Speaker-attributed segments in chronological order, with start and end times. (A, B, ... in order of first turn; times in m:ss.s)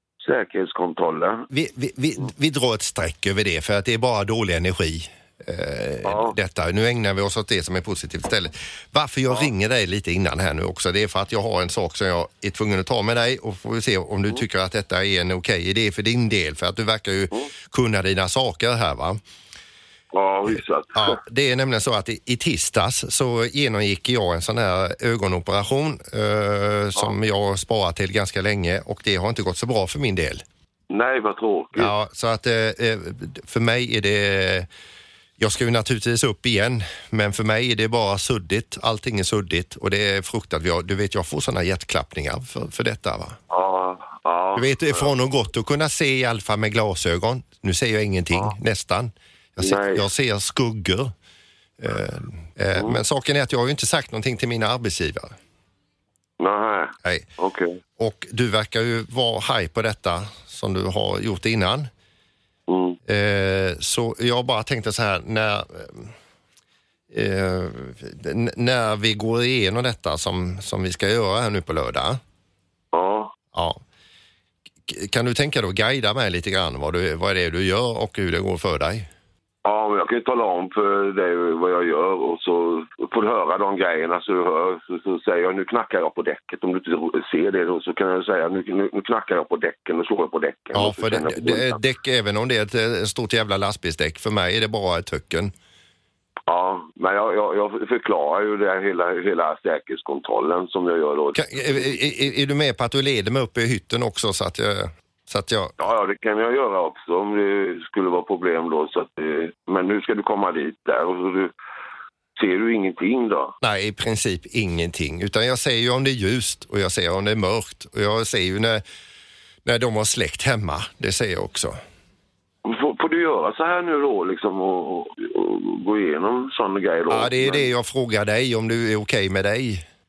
0:00.2-0:01.4 A
0:01.5-0:19.2 B
0:06.0-0:06.3 A
0:20.1-0:21.2 A
0:20.9-0:30.4 B
0:30.9-0:31.9 A
0:31.8-0:34.7 B
0:35.4-0:43.4 B
0:43.5-0:45.1 A
0:44.6-0:51.1 B
0:49.6-0:50.0 A
0:51.8-0:55.3 B
0:56.4-0:57.8 A
0:57.0-0:57.3 B
0:58.0-1:01.9 B
1:02.7-1:03.0 A
1:03.1-1:06.1 B
1:07.1-1:12.2 B
1:12.9-1:13.3 A
1:13.5-1:13.8 B
1:14.8-1:19.1 B
1:19.6-1:31.8 A
1:30.7-1:35.5 B
1:36.5-1:41.9 A
1:41.3-1:45.7 B
1:45.8-1:51.5 A
1:52.4-1:53.5 A
1:53.6-1:58.8 B
1:59.6-2:01.8 B
2:02.6-2:07.6 A
2:07.1-2:09.8 B